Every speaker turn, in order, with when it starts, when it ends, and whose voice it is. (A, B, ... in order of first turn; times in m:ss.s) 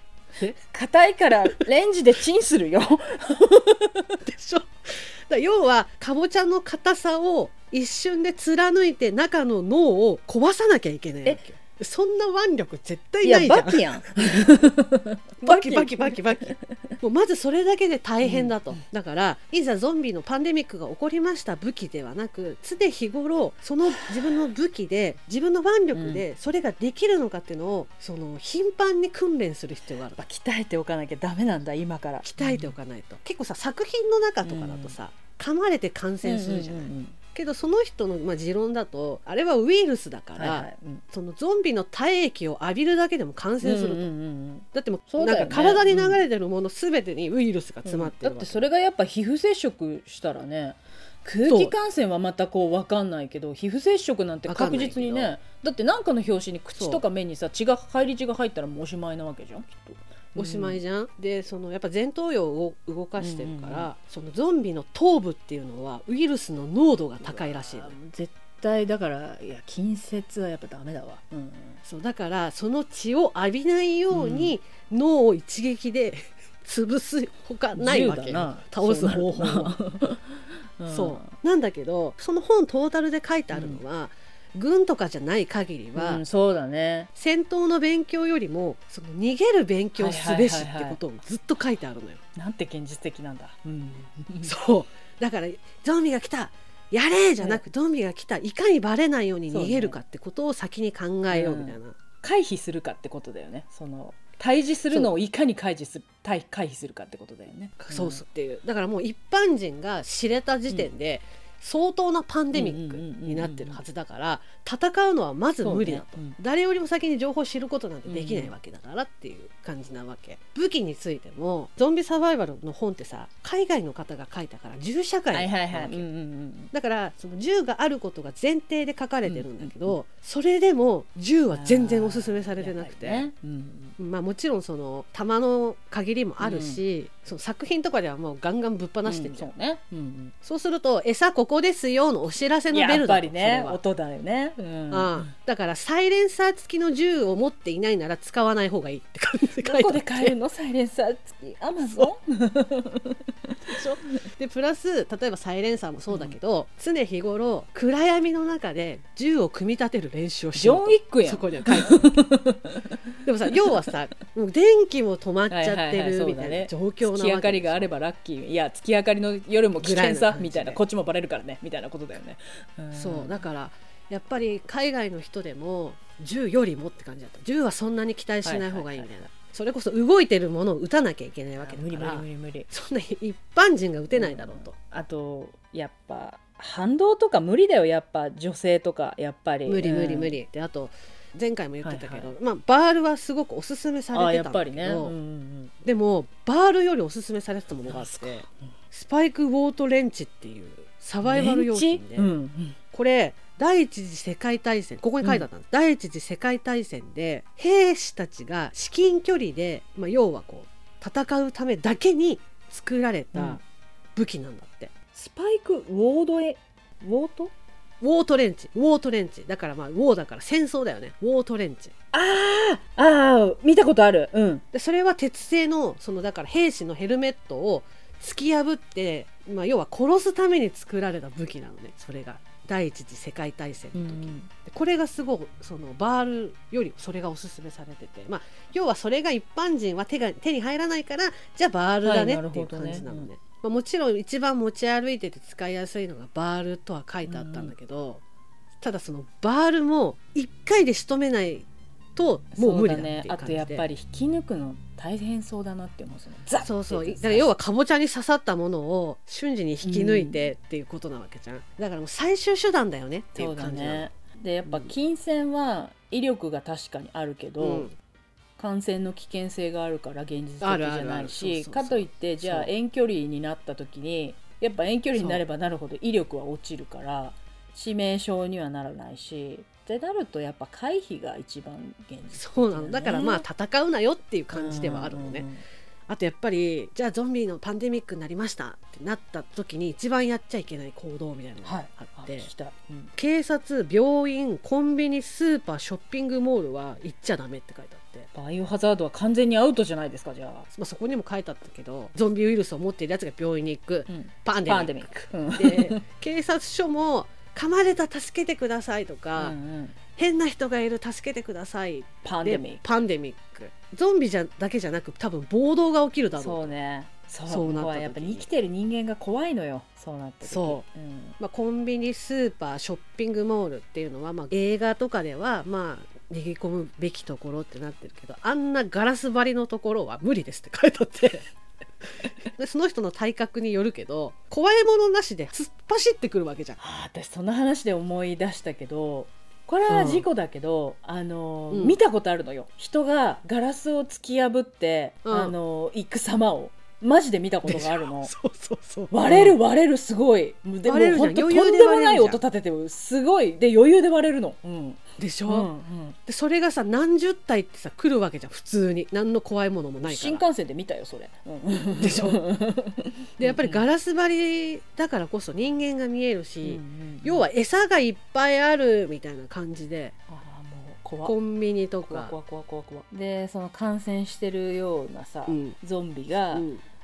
0:00.7-0:04.2 A
0:04.2-0:14.0 B
0:11.2-0:11.5 A
0:13.2-0:16.8 A
0:15.4-0:30.2 B
0:18.2-0:18.6 A
0:25.9-0:26.2 A
0:30.2-0:32.7 A
0:32.2-0:44.1 B
0:34.4-0:34.9 A
0:36.2-0:37.2 A
0:40.4-0:41.0 A
0:43.6-0:46.2 A
0:44.7-0:48.7 B
0:47.8-1:00.8 A
0:51.4-0:51.8 B
0:54.4-0:55.3 B
0:56.8-0:57.0 B
1:00.4-1:08.0 B
1:03.2-1:03.9 A
1:07.2-1:11.8 A
1:11.8-1:19.8 B
1:14.1-1:14.6 A
1:17.8-1:21.3 A
1:20.9-1:26.2 B
1:23.5-1:23.8 A
1:26.0-1:27.1 A
1:27.2-1:32.2 B
1:30.0-1:31.0 A
1:32.4-1:34.5 A
1:34.4-1:42.0 B
1:39.5-1:40.0 A
1:41.3-1:48.2 A
1:47.8-2:06.1 B
1:52.5-1:53.8 A
1:55.6-1:56.4 A
1:58.1-1:58.5 A
2:05.3-2:06.7 A
2:06.7-2:13.3 B
2:09.2-2:09.9 A
2:11.5-2:14.0 A
2:14.0-2:19.5 B
2:16.4-2:16.8 A
2:19.0-2:20.3 A
2:20.4-2:23.8 B
2:22.7-2:25.3 A
2:24.9-2:30.3 B
2:29.6-2:33.9 A
2:31.8-2:32.1 B
2:33.7-2:42.2 B
2:36.1-2:36.3 A
2:40.6-2:43.0 A
2:43.2-2:47.9 B
2:45.5-2:53.4 A
2:49.8-2:50.8 B
2:52.9-3:04.7 B
2:58.4-2:59.1 A
3:01.6-3:02.7 A
3:04.1-3:10.4 A
3:09.7-3:15.2 B
3:11.8-3:12.3 A
3:14.1-3:15.7 A
3:15.8-3:22.3 B
3:17.9-3:18.5 A
3:21.2-3:22.8 A
3:22.9-3:33.6 B
3:34.2-3:34.9 B
3:35.2-3:37.5 A
3:38.0-3:41.9 B
3:42.1-3:44.6 A
3:44.7-4:08.2 B
3:53.9-3:54.5 A
4:02.0-4:03.3 A
4:07.3-4:07.7 A
4:08.8-4:13.9 B
4:12.6-4:17.5 A
4:16.6-4:24.1 B
4:19.8-4:20.5 A
4:23.3-4:27.9 A
4:24.6-4:24.9 B
4:27.6-4:27.9 B
4:28.6-4:43.4 A
4:30.6-4:32.7 B
4:35.2-4:35.4 B
4:42.3-4:45.5 B
4:44.5-4:45.6 A
4:46.1-4:52.5 B
4:51.6-4:53.1 A
4:53.2-4:58.3 B
4:58.3-5:00.7 A
5:00.7-5:09.6 B
5:04.1-5:06.0 A
5:09.4-5:10.0 A
5:10.2-5:16.7 B
5:12.2-5:12.8 A
5:16.4-5:21.4 A
5:17.5-5:18.5 B
5:20.4-5:20.8 B
5:21.4-5:31.4 B
5:32.6-5:36.8 B
5:36.8-5:48.3 A
5:39.9-5:40.3 B
5:41.7-5:42.0 B
5:45.3-5:45.6 B
5:47.6-5:49.6 B
5:49.1-5:56.2 A
5:50.8-5:52.4 B
5:55.2-5:55.7 B
5:56.3-6:00.4 B
6:00.1-6:03.8 A
6:02.0-6:02.4 B
6:03.4-6:10.2 B
6:06.6-6:07.4 A
6:10.3-6:11.3 A
6:11.2-6:12.3 B
6:12.1-6:16.7 A
6:15.5-6:15.8 B
6:16.5-6:16.8 B